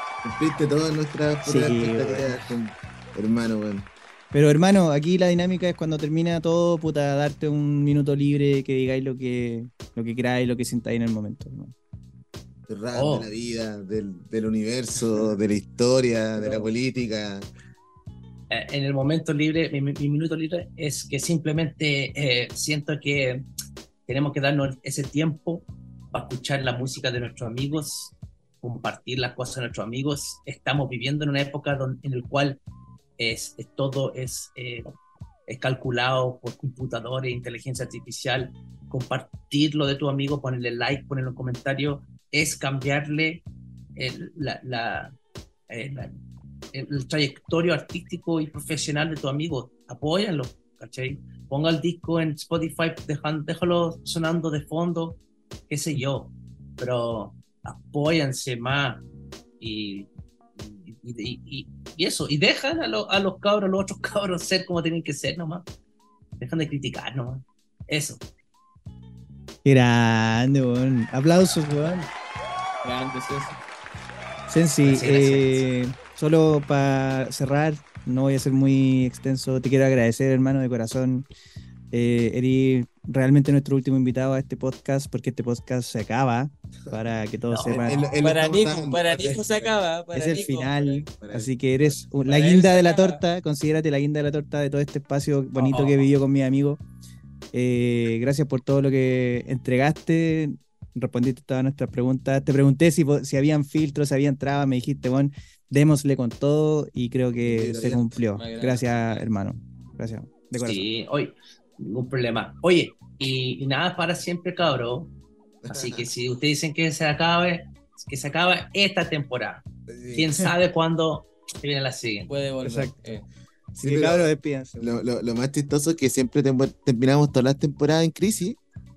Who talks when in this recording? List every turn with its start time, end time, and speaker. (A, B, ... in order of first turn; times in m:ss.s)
0:00.2-0:03.9 A
0:01.4-0:02.4 B
0:04.3-0:11.7 B
0:12.7-0:17.5 A
0:12.9-0:13.3 C
0:16.4-0:16.7 B
0:18.5-0:23.4 C
0:24.1-0:32.6 C
0:33.2-0:34.9 C
0:35.5-0:43.4 C
0:44.0-0:45.1 C
0:45.7-0:46.1 C
0:46.7-0:59.0 C
0:59.6-1:05.6 C
1:06.4-1:08.2 C
1:09.6-1:12.1 B
1:12.8-1:13.6 D
1:14.5-1:21.2 B
1:14.8-1:15.6 C
1:21.9-1:28.0 B
1:27.5-1:28.1 C
1:27.6-1:29.8 A
1:28.2-1:30.9 D
1:30.1-1:36.8 B
1:31.2-1:32.1 A
1:32.2-1:33.2 D
1:35.6-1:36.1 C
1:37.5-1:50.8 B
1:47.4-1:48.2 A
1:48.3-1:49.0 D
1:50.6-1:55.1 C
1:55.6-1:56.0 A
1:55.7-2:02.3 C
1:59.9-2:00.4 A
2:02.3-2:03.2 D
2:02.6-2:03.0 B
2:03.7-2:08.6 A
2:03.8-2:05.0 B